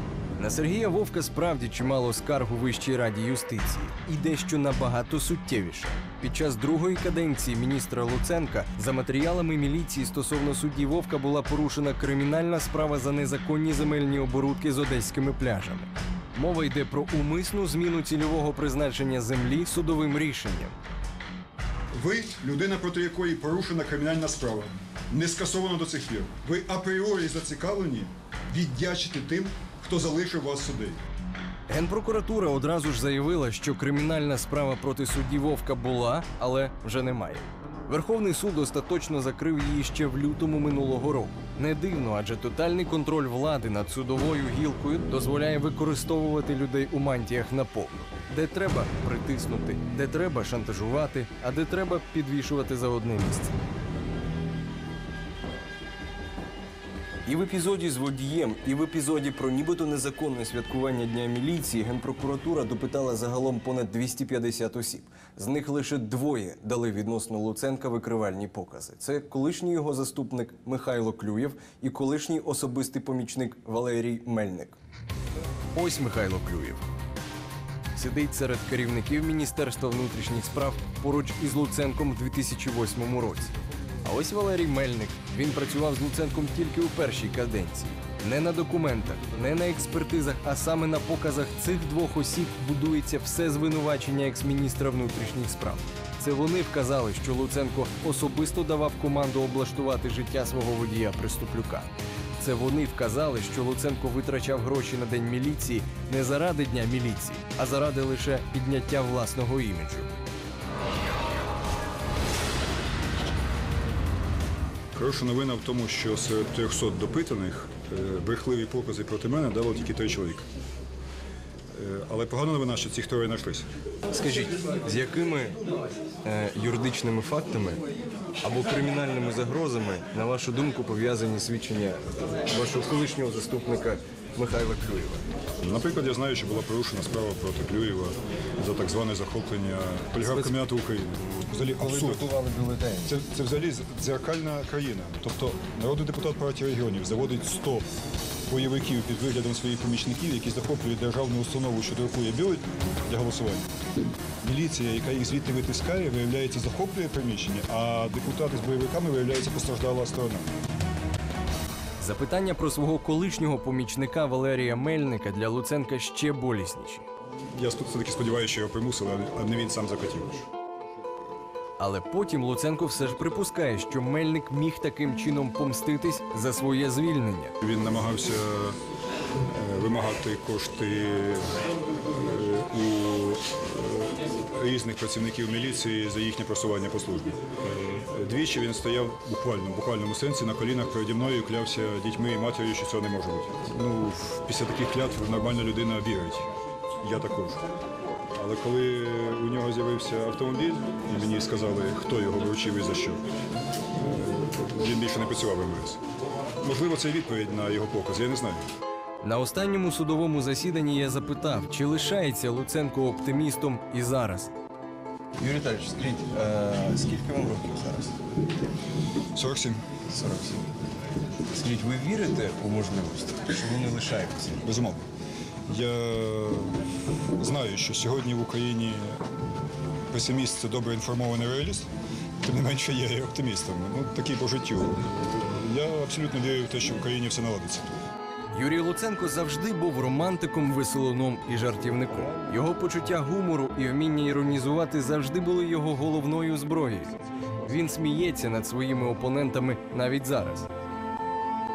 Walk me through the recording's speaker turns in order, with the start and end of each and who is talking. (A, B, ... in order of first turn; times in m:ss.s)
0:00.4-0:20.8 A
0:21.9-0:31.0 B
0:31.7-0:53.6 A
0:57.3-1:14.8 A
1:15.7-1:16.8 A
1:18.0-1:50.1 A
1:54.9-2:00.5 B
2:01.7-2:03.7 B
2:04.1-2:05.6 A
2:06.2-2:07.8 A
2:08.4-2:15.2 A
2:15.6-2:22.3 B
2:20.2-2:20.6 A
2:21.8-2:23.1 A
2:23.0-2:27.9 B
2:28.5-2:33.7 B
2:34.4-2:40.5 B
2:42.0-2:47.0 A
2:47.6-2:50.5 B
2:51.8-2:57.6 A
2:57.6-2:58.8 B
2:59.5-3:16.5 B
3:17.0-3:17.6 B
3:18.4-3:23.2 B
3:24.0-3:26.0 B
3:26.6-3:28.7 B
3:29.2-3:34.5 A
3:35.4-3:38.3 A
3:39.3-3:39.8 B
3:40.1-3:40.7 A
3:41.5-3:44.6 A
3:44.6-3:45.0 B
3:45.7-3:46.8 B
3:47.4-3:49.2 B
3:50.1-3:51.9 B
3:52.4-3:58.0 B
3:58.5-4:10.7 A